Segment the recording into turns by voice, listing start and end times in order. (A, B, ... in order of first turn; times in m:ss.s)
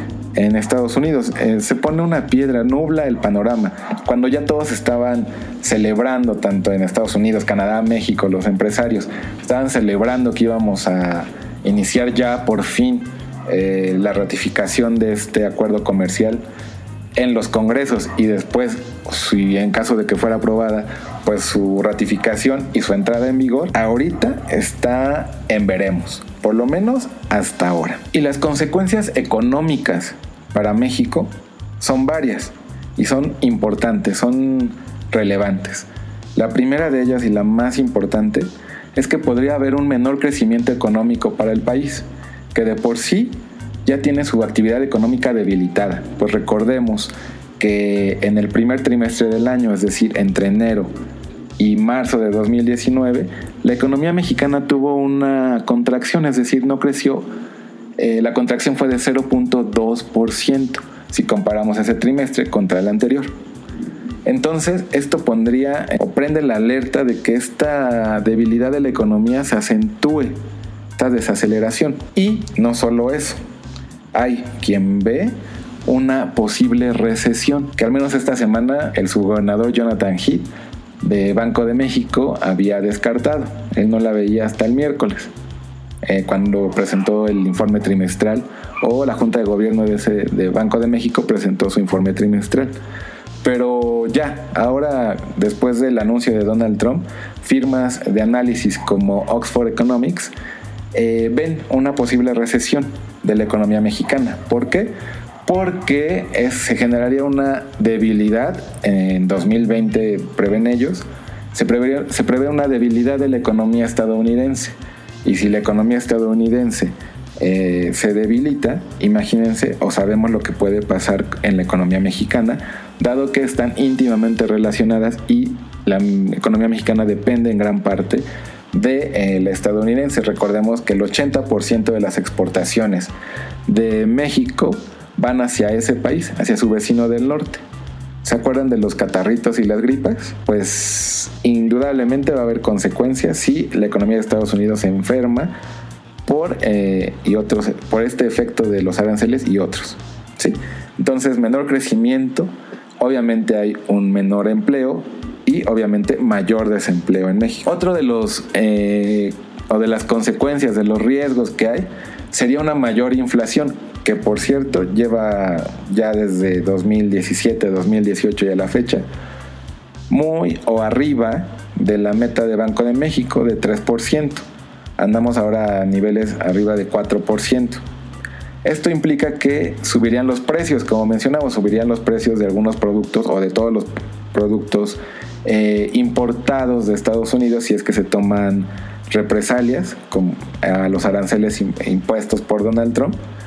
0:00.4-0:16.4 A
0:17.2-0:50.9 A
0:51.6-0:57.3 A
0:58.0-1:03.3 A
1:04.2-1:10.3 A
1:11.0-1:13.4 A
1:14.1-1:15.3 A
1:15.8-1:20.5 A
1:21.0-1:25.3 A
1:26.0-1:32.7 A
1:33.4-1:40.3 A
1:40.9-1:44.9 A
1:45.4-2:13.1 A
2:13.7-2:17.6 A
2:18.2-2:25.5 A
2:26.2-2:49.0 A
2:50.1-2:54.4 A
2:55.0-2:57.8 A
2:58.6-3:13.2 A